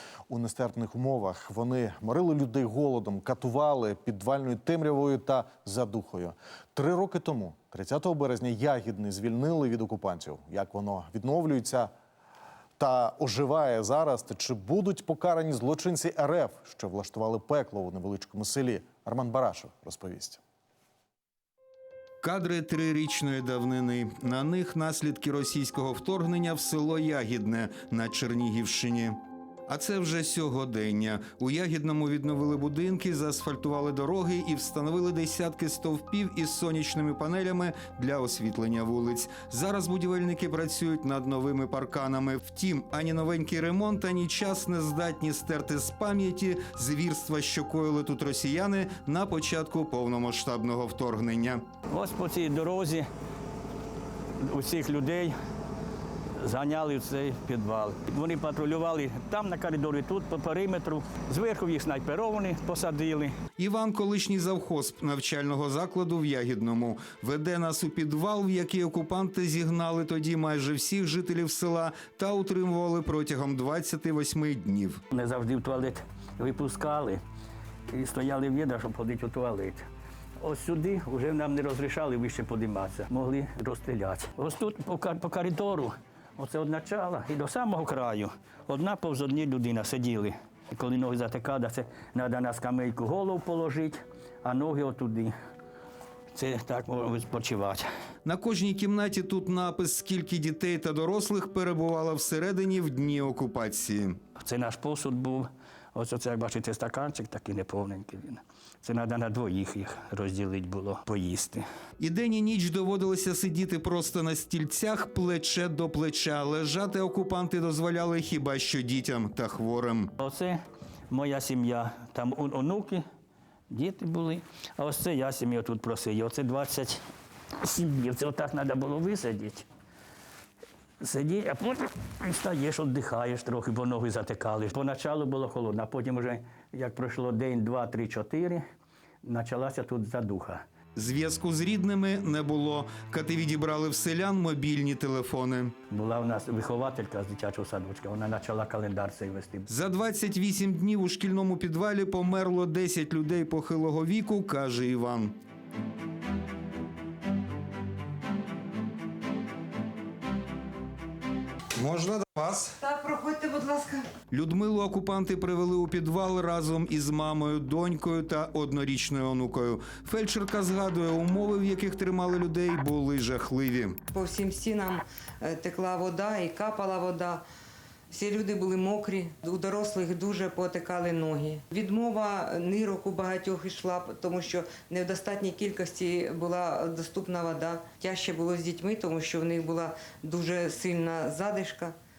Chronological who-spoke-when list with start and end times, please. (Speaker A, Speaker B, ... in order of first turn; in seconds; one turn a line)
Speaker A: 0.3-11.9
Speaker A: 12.8-20.4
Speaker B: 22.2-51.6
Speaker C: 51.9-53.0
Speaker C: 54.4-55.3
Speaker C: 56.4-63.3
Speaker B: 63.6-75.0
Speaker C: 75.1-77.2
Speaker C: 77.9-79.8
Speaker C: 80.4-95.3
Speaker C: 96.3-97.8
Speaker B: 98.2-104.2
Speaker C: 104.4-111.6
Speaker B: 112.0-120.1
Speaker C: 120.2-120.5
Speaker C: 121.1-123.0
Speaker C: 123.7-127.0
Speaker C: 127.7-129.6
Speaker C: 131.0-138.6
Speaker C: 139.2-140.6
Speaker B: 140.9-145.8
Speaker C: 145.9-149.6
Speaker B: 149.7-155.3
Speaker B: 161.8-162.7
Speaker D: 162.8-164.1
Speaker B: 164.3-174.0
Speaker D: 174.1-177.4
Speaker D: 178.1-192.0